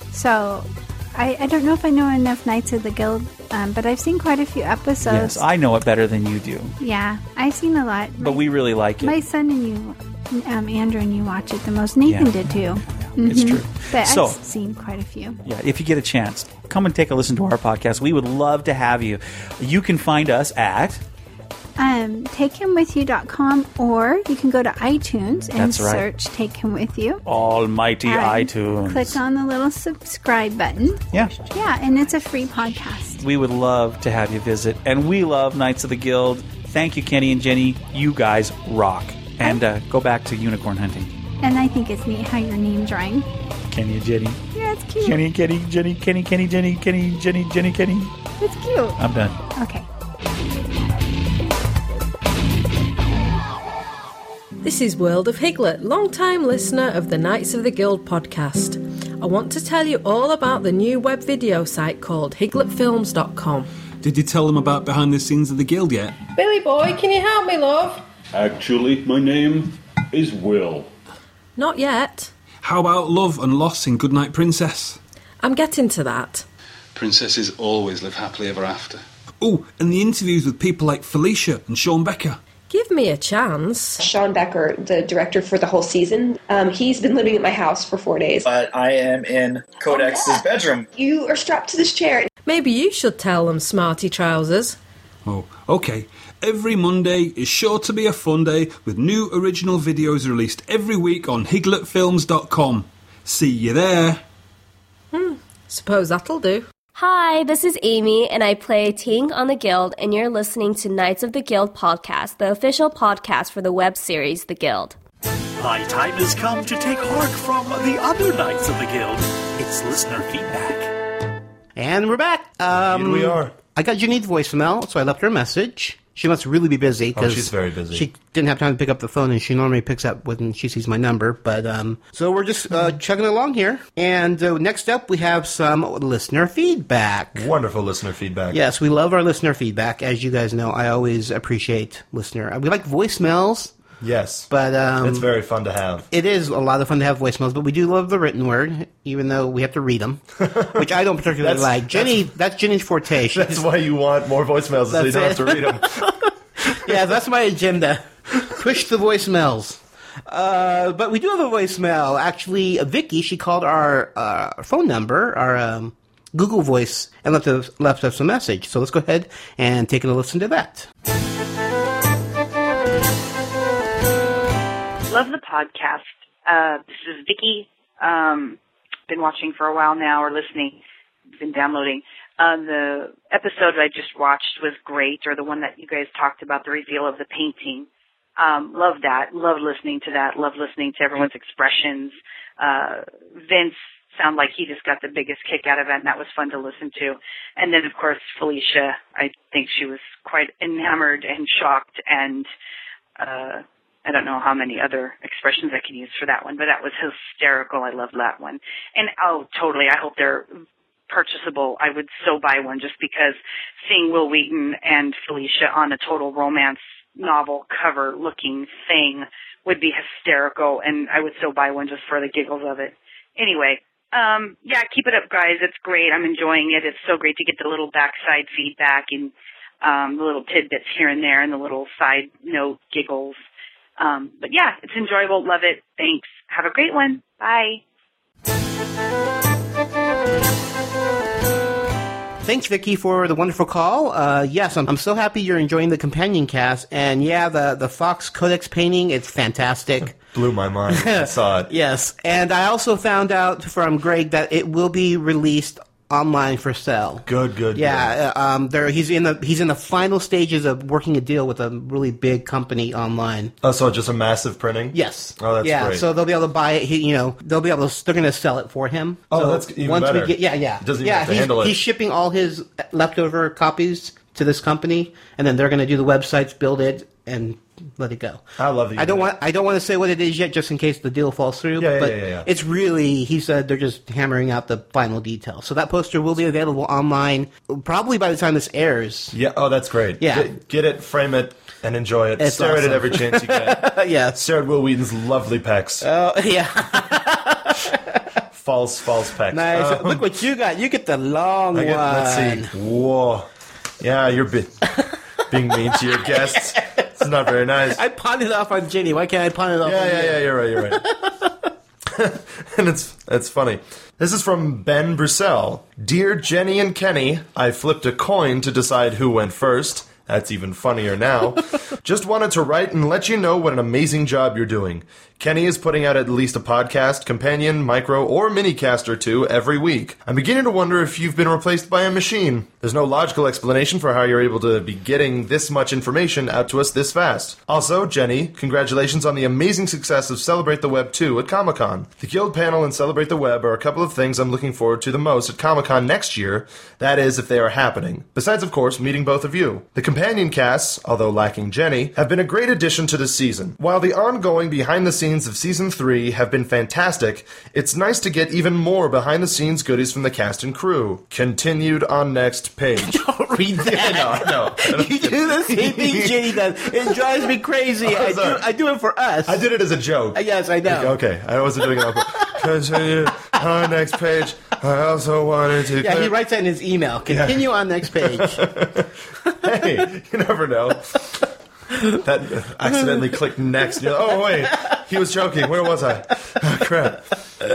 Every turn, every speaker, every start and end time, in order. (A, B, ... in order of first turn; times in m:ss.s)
0:00.1-0:05.4 A
0:05.1-0:06.7 B
0:06.8-0:08.5 A
0:08.2-0:09.2 B
0:09.0-0:15.4 A
0:12.1-0:12.5 B
0:13.2-0:14.4 B
0:15.5-0:21.0 B
0:21.8-0:27.2 A
0:25.6-0:26.0 B
0:27.3-0:29.2 B
0:28.0-0:33.2 A
0:33.2-0:41.1 B
0:41.4-0:43.3 A
0:43.7-0:44.4 B
0:44.5-0:45.2 A
0:45.0-0:48.1 B
0:48.4-0:49.0 A
0:49.0-0:49.4 B
0:49.6-0:49.9 A
0:54.6-1:03.7 C
1:04.0-1:06.2 D
1:06.4-1:08.0 C
1:08.4-1:10.9 D
1:11.6-1:12.3 C
1:12.6-1:15.0 D
1:15.4-1:16.4 C
1:17.0-1:22.4 D
1:22.7-1:24.0 C
1:24.0-1:28.4 E
1:28.4-1:30.9 F
1:29.9-1:30.4 E
1:31.0-1:32.3 E
1:32.5-1:34.8 C
1:35.3-1:44.2 D
1:45.1-1:46.7 C
1:47.0-1:55.0 G
1:55.6-2:00.9 H
2:01.8-2:17.5 I
2:02.7-2:03.6 J
2:07.2-2:08.1 J
2:17.4-2:18.6 J
2:18.5-2:23.7 I
2:24.0-2:24.5 J
2:24.5-2:25.3 I
2:25.0-2:26.1 J
2:26.1-2:30.2 I
2:30.4-2:30.8 J
2:30.7-2:33.6 I
2:31.4-2:32.2 J
2:33.3-2:36.0 J
2:34.9-2:36.1 I
2:36.7-2:50.9 I
2:55.1-3:00.8 K
3:01.4-3:07.9 K
3:08.4-3:22.5 K
3:23.2-3:30.5 K
3:31.1-3:53.4 K
3:54.0-3:57.8 K
4:02.4-4:10.2 I
4:10.2-4:11.7 J
4:10.9-4:23.5 I
4:17.3-4:18.1 J
4:23.6-4:26.0 J
4:24.9-4:38.4 I
4:29.3-4:31.7 J
4:38.6-4:39.3 J
4:39.0-4:49.4 I
4:41.8-4:42.5 J
4:49.3-4:56.1 J
4:50.2-4:50.5 I
4:52.4-4:54.4 I
4:56.0-4:58.2 I
4:58.5-5:00.2 J
4:59.5-5:02.7 I
5:01.7-5:03.5 J
5:04.0-5:04.8 J
5:05.5-5:08.0 J
5:05.8-5:07.2 I
5:07.9-5:11.5 I
5:09.8-5:11.0 J
5:12.1-6:03.2 J
6:03.0-6:09.7 I
6:03.8-6:06.5 J
6:08.0-6:08.6 J
6:09.5-6:16.3 J
6:10.4-6:11.2 I
6:11.8-6:12.5 I
6:16.0-6:18.7 I
6:17.3-6:17.6 J
6:18.2-6:19.1 J
6:19.6-6:21.2 J
6:22.1-6:27.3 J
6:22.9-6:23.3 I
6:24.1-6:24.7 I